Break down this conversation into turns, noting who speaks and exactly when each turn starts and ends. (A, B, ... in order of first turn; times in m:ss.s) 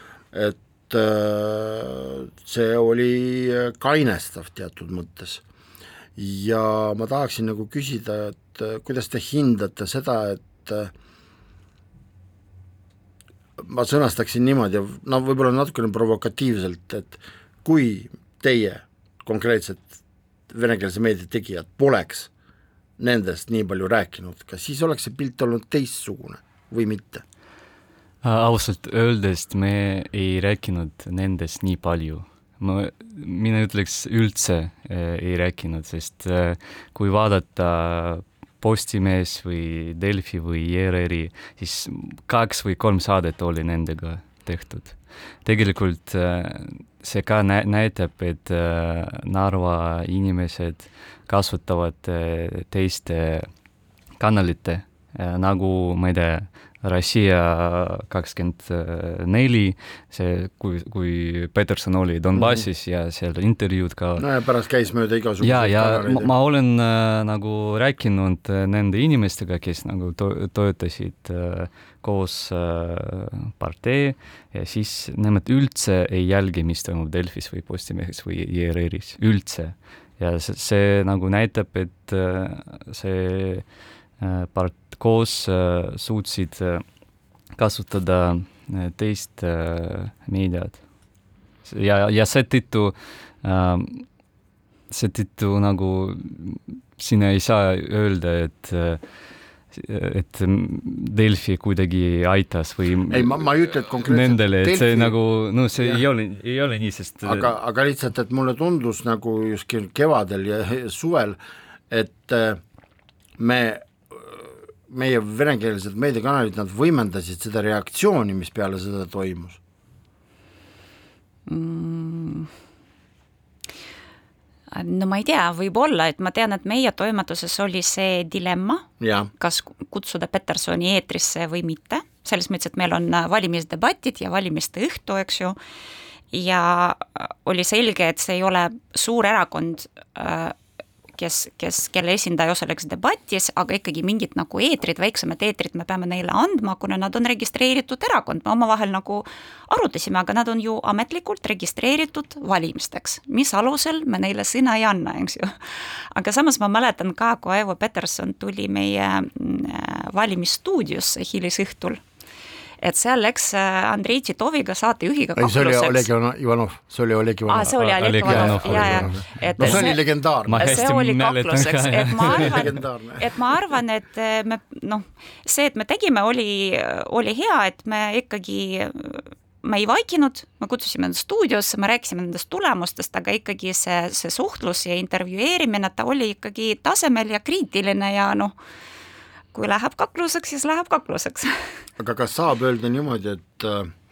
0:00.3-0:05.4 A
0:06.2-0:10.9 A
0:13.6-0:20.0 A
0:20.5-0:22.3 A
0:23.0-0:27.2 A
0:28.2-0:53.5 B
0:54.2-1:04.2 B
1:02.3-1:02.6 A
1:04.2-1:06.3 A
1:05.4-1:26.8 B
1:27.6-1:30.8 B
1:31.6-1:34.1 B
1:34.9-1:39.1 B
1:39.7-1:47.5 B
1:43.1-1:45.1 A
1:47.2-1:51.4 A
1:51.9-1:52.6 A
1:53.4-1:59.6 A
2:01.5-2:02.5 C
2:04.7-2:15.6 C
2:09.0-2:09.3 A
2:16.3-2:20.6 C
2:21.1-2:42.0 C
2:42.8-2:46.1 C
2:45.4-2:50.9 A
2:47.5-2:50.0 C
2:47.8-2:52.7 B
2:50.6-3:08.5 C
2:52.2-2:53.2 A
3:09.5-3:11.5 C
3:12.0-3:13.9 A